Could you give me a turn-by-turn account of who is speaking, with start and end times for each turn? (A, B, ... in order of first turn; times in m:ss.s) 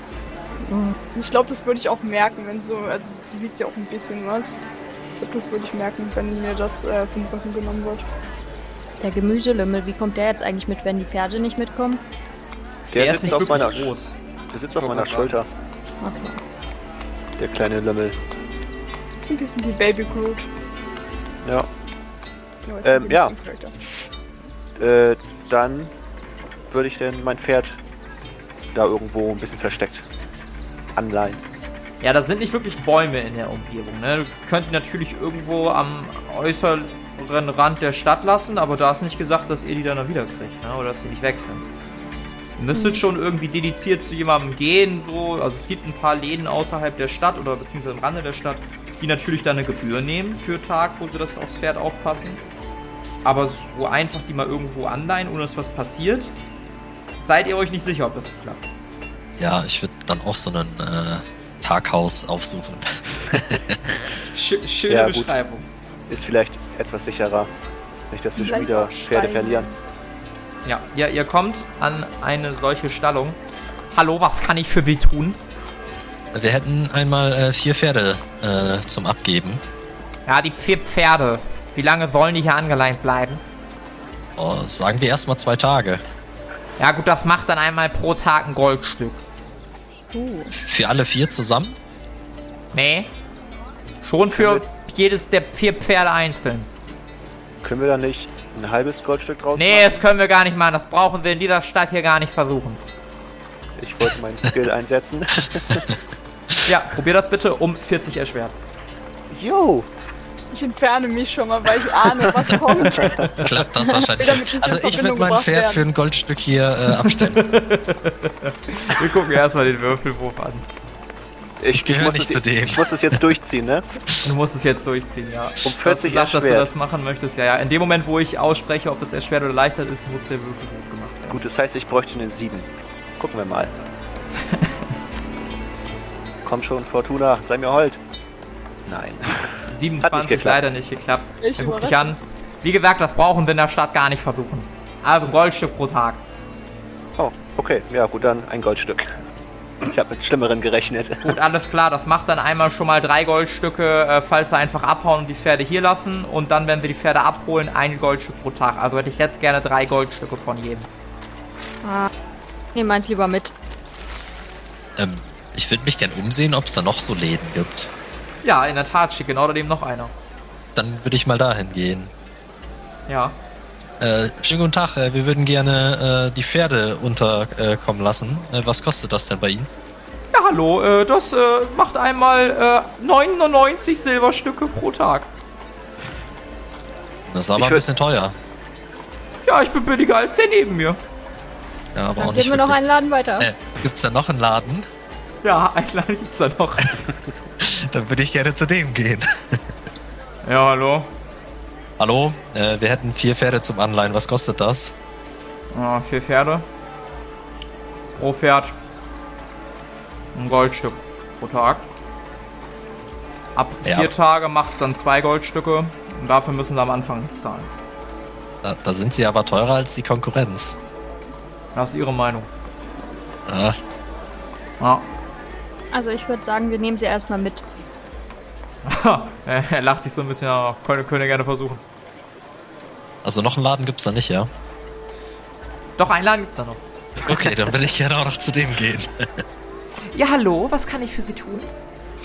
0:00.6-0:01.0 A
0:01.1-0:04.6 B
0:05.2-0:08.0 B
0:09.0-0:12.0 A
0:12.9-0:13.9 C
0:12.9-0:14.2 D
0:14.5-0:15.5 C
0:14.7-0:15.4 D
0:16.0-0:16.4 A
0:17.4-0:18.2 C
0:19.2-0:20.5 B
0:21.4-0:21.7 C
0:22.6-0:23.7 B
0:22.8-0:23.3 C
0:24.8-0:25.9 C
0:26.7-0:27.8 C
0:28.7-0:30.1 C
0:30.9-0:31.4 C
0:32.0-0:41.7 D
0:42.6-0:52.4 D
0:42.7-0:43.0 A
0:53.2-0:56.3 D
0:57.2-0:58.7 D
0:59.4-1:03.9 E
1:04.3-1:05.7 D
1:04.9-1:05.3 C
1:06.1-1:07.5 C
1:08.1-1:09.7 C
1:08.4-1:09.8 B
1:10.6-1:13.4 D
1:13.9-1:15.4 D
1:16.3-1:19.6 E
1:20.2-1:23.4 D
1:24.4-1:26.0 E
1:26.8-1:29.2 D
1:30.1-1:30.5 A
1:30.6-1:31.8 E
1:32.7-1:33.1 D
1:34.0-1:36.7 D
1:34.3-1:34.6 C
1:37.6-1:40.0 C
1:39.6-1:42.8 D
1:43.8-1:45.9 C
1:46.6-1:48.6 D
1:49.3-1:49.9 C
1:50.5-1:53.3 B
1:53.0-1:53.6 D
1:53.0-1:57.5 E
1:54.0-1:55.8 B
1:56.9-2:00.6 D
2:01.6-2:03.8 C
2:01.7-2:03.2 E
2:04.2-2:11.4 D
2:05.6-2:06.7 C
2:11.3-2:13.7 C
2:14.4-2:14.8 D
2:16.4-2:18.0 C
2:18.9-2:20.6 C
2:19.7-2:26.2 D
2:21.4-2:22.1 B
2:27.2-2:29.2 C
2:29.9-2:31.4 C
2:31.2-2:40.9 D
2:41.8-2:42.1 A
2:42.7-2:43.5 A
2:45.0-2:47.9 E
2:48.4-2:50.1 D
2:50.7-2:52.1 E
2:53.1-2:53.4 D
2:54.0-2:59.7 E
3:00.3-3:05.3 D
3:07.3-3:08.4 E
3:07.5-3:07.8 C
3:09.4-3:11.0 D
3:11.9-3:12.8 E
3:12.2-3:13.5 A
3:13.4-3:14.9 E
3:15.4-3:17.0 D
3:17.6-3:19.6 E
3:20.4-3:21.1 D
3:22.0-3:24.9 E
3:25.7-3:26.7 D
3:28.1-3:28.8 D
3:30.3-3:31.9 D
3:33.5-3:37.7 D
3:33.8-3:34.1 E
3:38.6-3:40.8 E
3:41.7-3:42.5 D
3:43.5-3:43.8 E
3:44.8-3:45.1 D
3:45.9-3:47.6 A
3:48.8-3:51.8 D
3:53.2-3:54.5 E
3:56.0-3:56.8 D
3:57.2-3:59.4 E
4:00.1-4:01.7 D